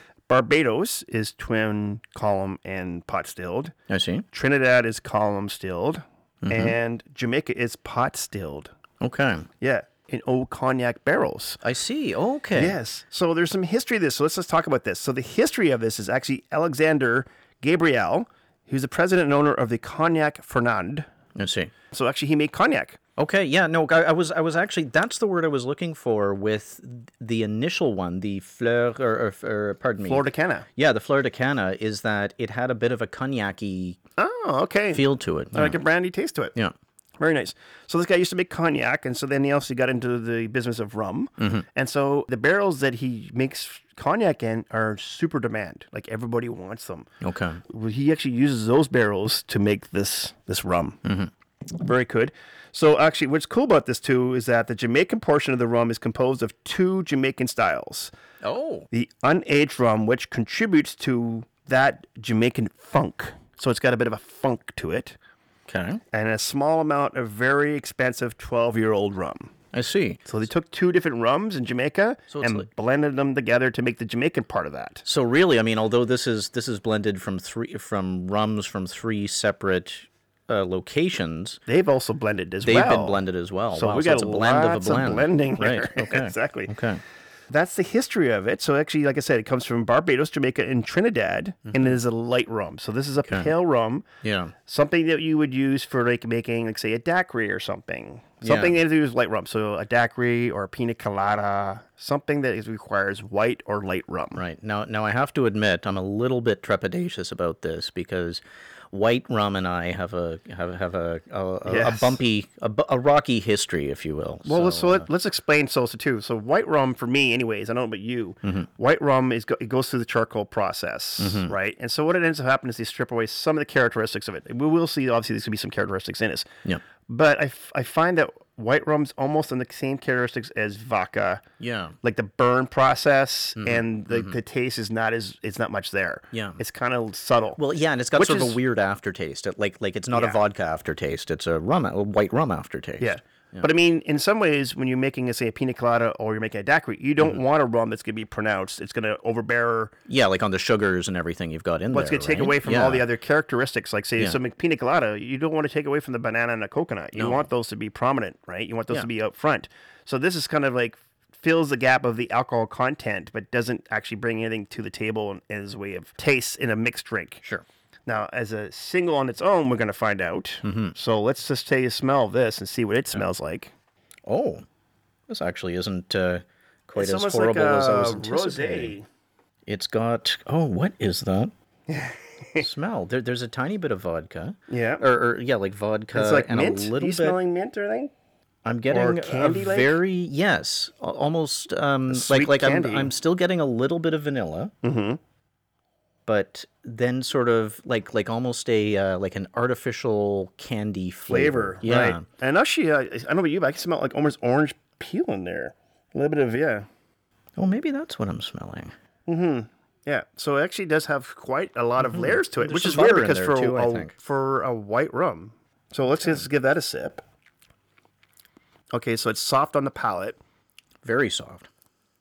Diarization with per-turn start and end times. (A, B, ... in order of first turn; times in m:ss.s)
0:00.3-0:03.7 A
0:03.9-0:04.3 B
0:04.3-0:08.7 A
0:06.4-0:06.8 B
0:09.0-0:09.5 B
0:09.6-0:11.6 A
0:11.6-0:12.8 B
0:12.6-0:21.1 A
0:21.4-0:21.7 B
0:21.9-0:23.0 A
0:23.2-0:34.0 B
0:30.0-0:30.7 A
0:34.2-0:36.6 A
0:34.9-0:35.8 B
0:37.2-0:47.1 A
0:41.4-0:41.6 B
0:47.2-0:47.6 B
0:47.7-0:51.0 A
0:51.0-0:51.3 B
0:51.7-0:58.1 A
0:58.4-0:58.9 B
0:58.9-1:05.2 A
1:05.7-1:06.0 B
1:06.1-1:09.5 A
1:09.7-1:10.2 B
1:10.2-1:15.0 A
1:12.3-1:12.7 B
1:15.0-1:21.6 B
1:21.7-1:23.2 A
1:22.6-1:27.0 B
1:23.7-1:26.7 A
1:27.5-1:34.1 A
1:31.7-1:32.0 B
1:34.2-1:34.5 B
1:34.6-1:44.4 A
1:38.4-1:38.8 B
1:44.4-1:55.1 B
1:51.6-1:52.2 A
1:54.4-2:06.5 A
2:01.2-2:01.6 B
2:07.1-2:11.4 A
2:11.6-2:12.0 B
2:12.0-2:17.6 A
2:13.6-2:14.4 B
2:16.3-2:16.6 B
2:17.6-2:23.7 B
2:18.1-2:18.6 A
2:20.1-2:20.4 A
2:23.0-2:29.9 A
2:30.1-2:33.1 B
2:31.9-2:47.4 A
2:37.1-2:37.4 B
2:48.1-2:53.7 A
2:50.6-2:51.0 B
2:54.3-2:54.6 B
2:55.3-2:59.0 B
2:57.0-2:59.1 A
2:59.7-3:01.5 B
3:01.9-3:02.7 A
3:02.6-3:07.4 B
3:04.7-3:05.0 A
3:06.1-3:08.1 A
3:08.6-3:14.7 B
3:08.9-3:10.0 A
3:12.1-3:13.1 A
3:14.8-3:15.2 A
3:16.3-3:22.2 B
3:21.3-3:26.9 A
3:27.6-3:28.9 B
3:29.3-3:37.2 A
3:32.0-3:34.1 B
3:38.9-3:40.4 A
3:41.0-3:41.7 B